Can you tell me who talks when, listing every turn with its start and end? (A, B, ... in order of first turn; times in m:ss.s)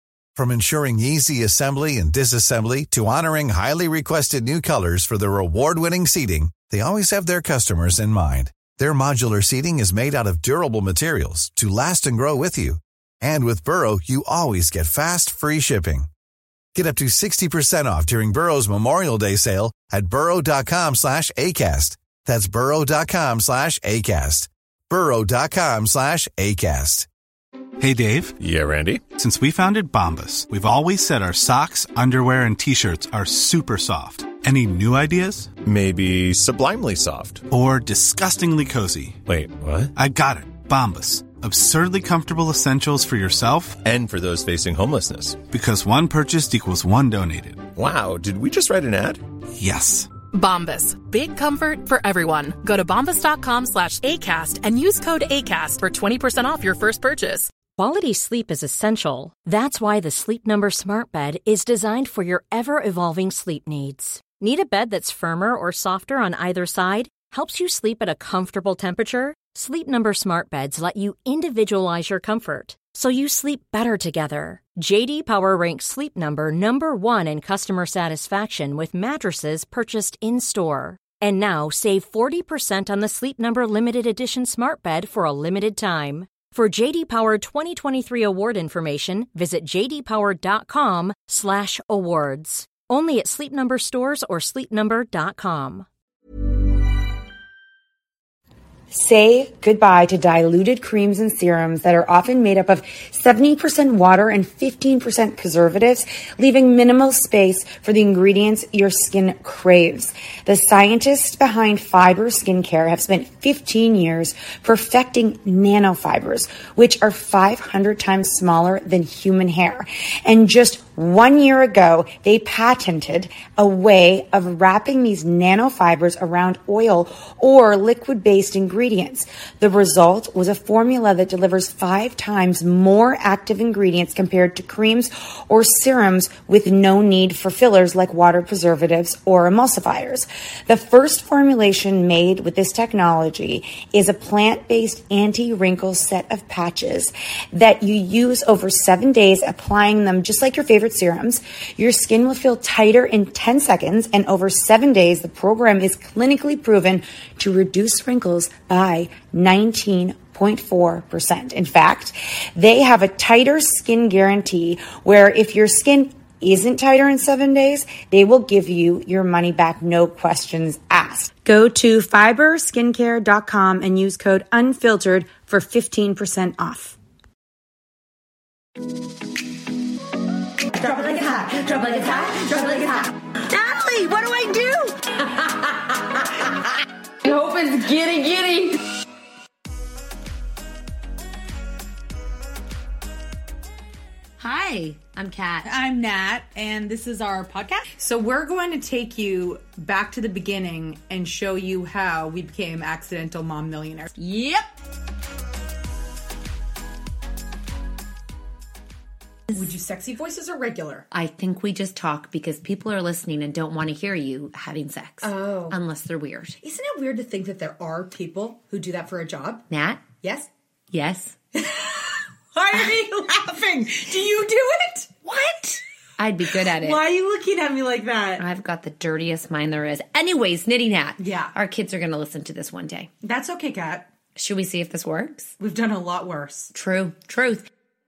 0:00.4-0:16.1 A
0:16.7-0:27.1 A
0:27.8-0:28.4 B
0:28.4-0:29.0 C
0:29.1-0:35.5 B
0:35.6-0:37.4 C
0:37.5-0:39.2 B
0:39.2-0:39.9 C
0:39.9-0:43.8 B
0:43.8-0:45.4 C
0:45.5-0:47.6 B
0:47.7-0:49.2 C
0:49.6-0:50.1 B
0:50.3-0:57.5 D
0:57.8-1:35.9 E
1:38.9-2:51.4 F
2:51.4-2:57.0 G
3:00.8-3:03.2 G
3:00.8-3:06.5 H
3:07.2-3:08.8 H
3:14.4-3:15.7 H
3:15.6-3:24.1 G
3:24.2-3:24.6 H
3:29.5-3:31.0 G
3:31.1-3:36.6 H
3:35.2-3:35.8 G
3:36.6-3:39.6 G
3:39.7-3:40.1 H
3:40.2-3:40.5 G
3:40.9-3:41.4 H
3:41.6-3:45.1 G
3:45.2-3:47.0 H
3:46.7-3:48.4 G
3:48.4-3:53.1 H
3:51.2-3:51.6 G
3:53.2-3:54.1 G
3:54.4-3:55.5 H
3:55.6-3:56.7 G
3:56.7-3:57.7 H